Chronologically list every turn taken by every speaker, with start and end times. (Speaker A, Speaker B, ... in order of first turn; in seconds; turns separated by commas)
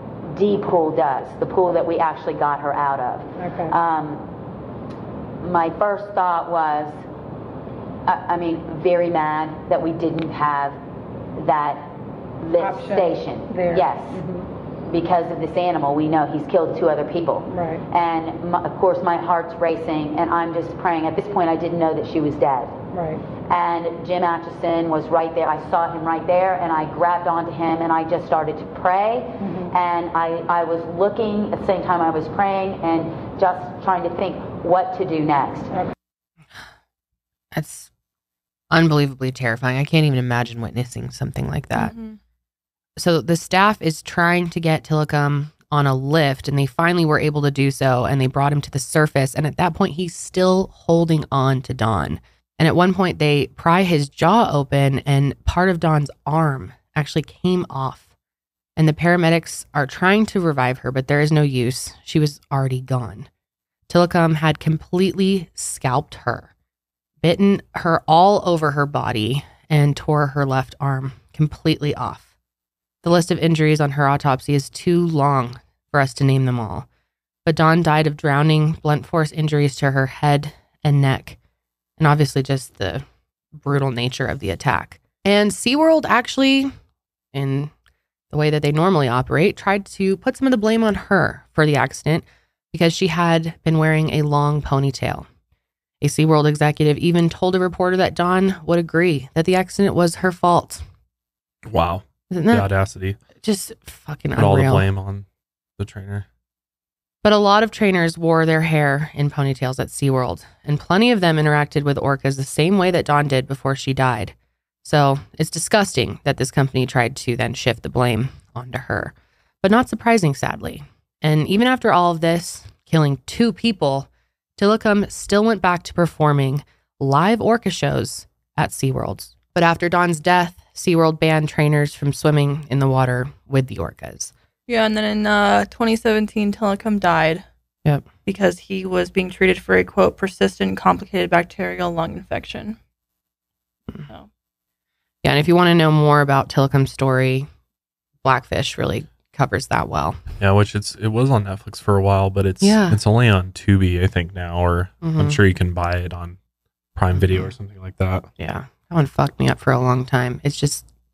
Speaker A: 0.3-4.3, Speaker B: 3.4-3.8, Speaker A: 5.4-7.0, Speaker A: 8.1-10.8, Speaker A: 11.4-11.9, Speaker A: 12.4-14.2, Speaker B: 12.6-14.5, Speaker A: 14.9-22.8, Speaker B: 17.5-17.8, Speaker B: 22.9-23.2, Speaker A: 23.4-35.7, Speaker B: 29.4-29.7, Speaker C: 37.5-37.9, Speaker C: 38.7-41.9, Speaker D: 41.8-42.2, Speaker C: 43.0-58.1, Speaker C: 58.8-63.3, Speaker C: 63.9-66.5, Speaker C: 67.2-72.3, Speaker C: 73.0-76.9, Speaker C: 77.5-81.4, Speaker C: 82.0-86.7, Speaker C: 87.3-87.7, Speaker C: 88.3-95.3, Speaker C: 96.0-100.8, Speaker E: 101.7-103.2, Speaker C: 102.3-102.7, Speaker C: 103.4-104.9, Speaker E: 104.4-105.3, Speaker E: 105.8-106.3, Speaker C: 107.2-134.3, Speaker D: 134.7-137.4, Speaker D: 138.3-142.8, Speaker C: 145.2-147.5, Speaker C: 148.2-150.2, Speaker E: 150.4-156.4, Speaker C: 152.6-153.0, Speaker C: 155.0-155.4, Speaker E: 156.9-158.3, Speaker C: 157.1-157.5, Speaker C: 158.4-160.9